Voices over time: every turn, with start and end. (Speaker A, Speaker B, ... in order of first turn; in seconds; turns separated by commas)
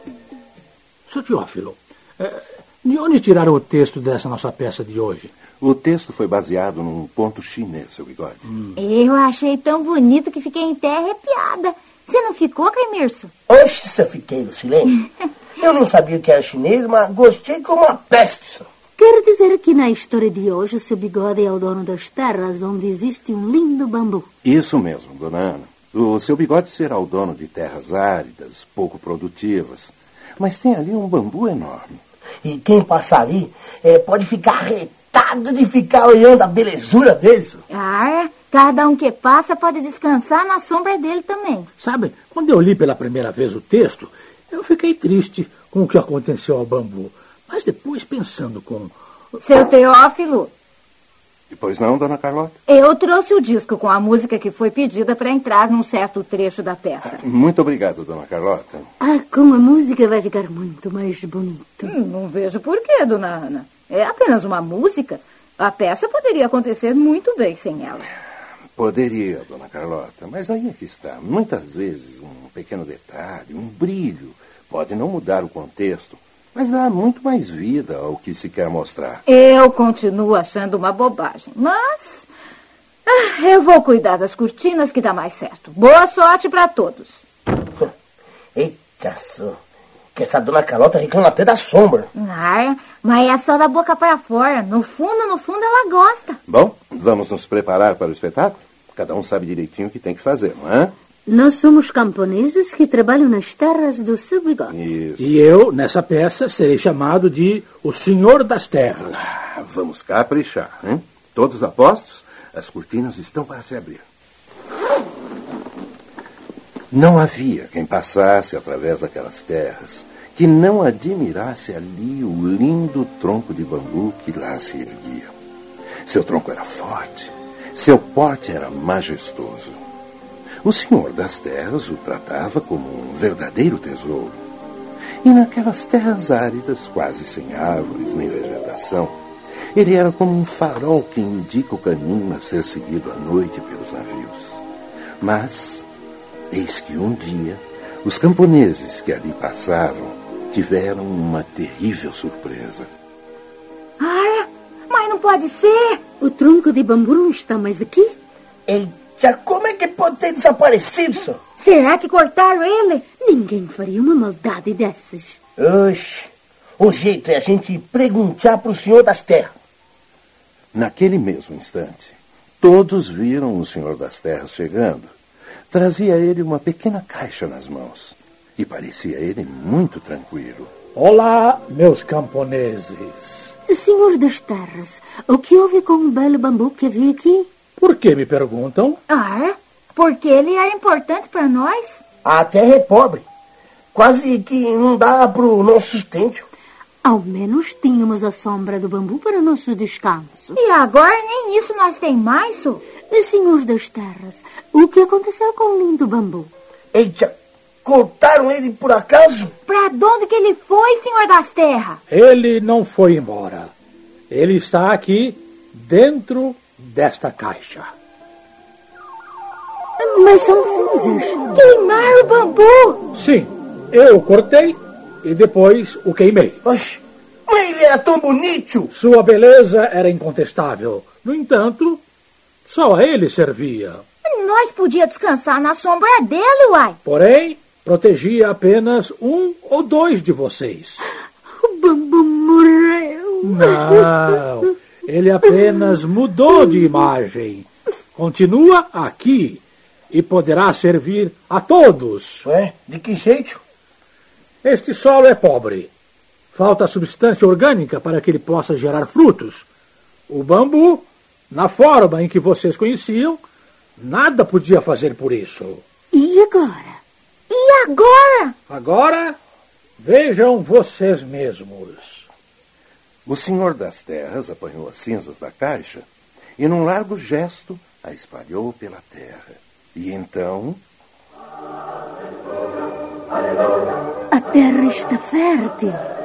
Speaker A: 1.1-5.3, Speaker B: 5.6-8.4, Speaker C: 8.8-13.3, Speaker D: 13.5-15.0, Speaker D: 15.6-18.7, Speaker E: 19.0-24.3, Speaker B: 24.4-32.0, Speaker D: 32.4-37.6, Speaker C: 37.7-41.7, Speaker A: 41.8-48.9, Speaker C: 49.4-50.5, Speaker B: 51.5-52.6, Speaker C: 52.7-57.2, Speaker B: 57.0-58.9, Speaker E: 59.0-62.0, Speaker C: 61.8-68.1, Speaker B: 68.8-79.2, Speaker C: 79.3-82.3, Speaker C: 83.1-87.2, Speaker D: 88.5-89.6, Speaker D: 90.1-92.1, Speaker C: 92.2-96.4, Speaker B: 96.5-100.9, Speaker E: 101.3-104.9, Speaker B: 104.7-105.4, Speaker A: 105.2-109.3, Speaker B: 109.4-114.0, Speaker B: 116.9-125.3, Speaker B: 126.0-129.8, Speaker B: 130.6-134.4, Speaker B: 135.2-139.2, Speaker B: 139.7-144.6, Speaker B: 145.2-145.9, Speaker B: 146.5-152.9, Speaker C: 154.0-156.0, Speaker E: 156.2-158.2, Speaker D: 158.7-161.4, Speaker C: 161.6-163.1, Speaker E: 163.2-165.4, Speaker D: 165.6-169.5, Speaker B: 170.7-175.1, Speaker B: 175.7-180.7, Speaker A: 180.9-183.6, Speaker E: 183.7-187.5, Speaker A: 187.8-189.0, Speaker C: 189.1-192.0, Speaker D: 192.2-193.2, Speaker D: 193.9-196.5, Speaker E: 197.0-200.6, Speaker C: 200.6-202.8, Speaker E: 203.1-206.5, Speaker D: 206.9-207.3, Speaker D: 207.8-209.5, Speaker C: 209.7-212.0, Speaker A: 212.1-213.7, Speaker A: 214.3-217.9, Speaker E: 220.0-221.5, Speaker C: 221.5-223.0, Speaker A: 223.1-226.6, Speaker D: 226.6-228.9, Speaker A: 228.9-232.0, Speaker A: 232.7-234.0, Speaker C: 234.2-237.0, Speaker A: 237.1-241.1, Speaker E: 241.6-244.1, Speaker A: 243.4-252.4, Speaker D: 252.4-253.6, Speaker A: 254.6-255.9, Speaker A: 256.5-259.7, Speaker A: 260.3-263.4, Speaker A: 264.0-265.8, Speaker E: 266.1-267.0, Speaker C: 267.5-268.5, Speaker A: 268.7-269.4, Speaker A: 270.0-272.3, Speaker B: 273.3-276.1, Speaker B: 276.6-280.8, Speaker E: 284.3-286.1